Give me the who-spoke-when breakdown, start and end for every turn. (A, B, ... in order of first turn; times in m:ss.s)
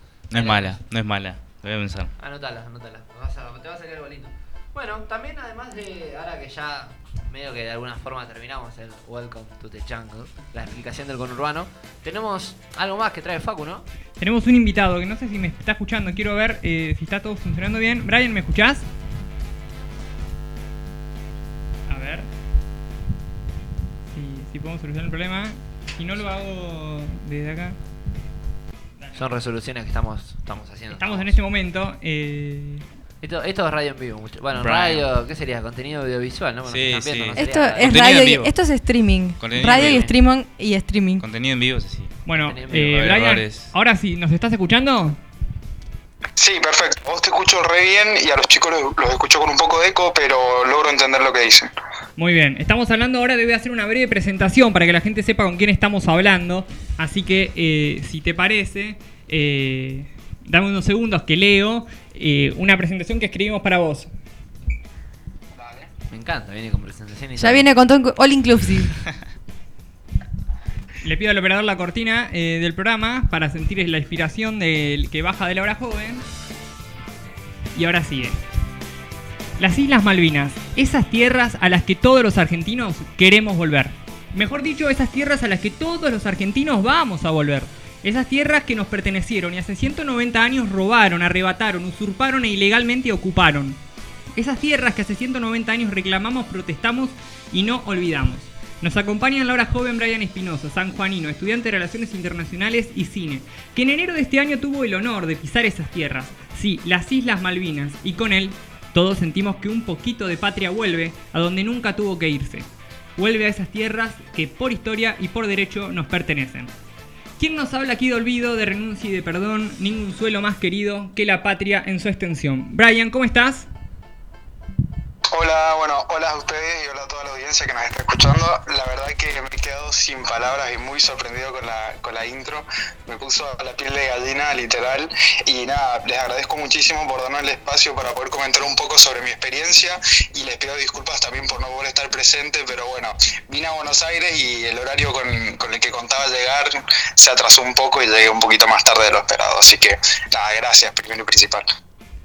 0:00.3-0:02.1 A
0:00.3-0:00.8 B
0:02.2-0:13.8 B
0:14.2-0:18.9 C
0:21.9-0:22.3 C
0:24.1-0:27.8 C
0:29.0-0:29.3 C
0:29.2-0:31.3 B
0:30.9-0:32.8 C
0:33.2-0:38.0 B
0:34.5-0:35.1 A
0:36.7-0:38.5 A
0:37.4-0:41.2 D
0:39.4-0:40.1 A
0:39.6-0:40.1 B
0:41.2-0:42.2 A
0:42.3-0:45.2 C
0:42.4-0:43.0 B
0:42.7-0:43.7 A
0:46.4-0:51.7 E
0:52.2-1:04.1 C
1:05.6-1:05.9 E
1:06.1-1:07.7 B
1:07.4-1:09.0 D
1:11.0-1:16.2 C
1:17.8-1:18.4 C
1:19.6-1:33.8 C
1:34.4-1:56.7 C
1:57.4-2:03.7 C
2:05.3-2:31.6 E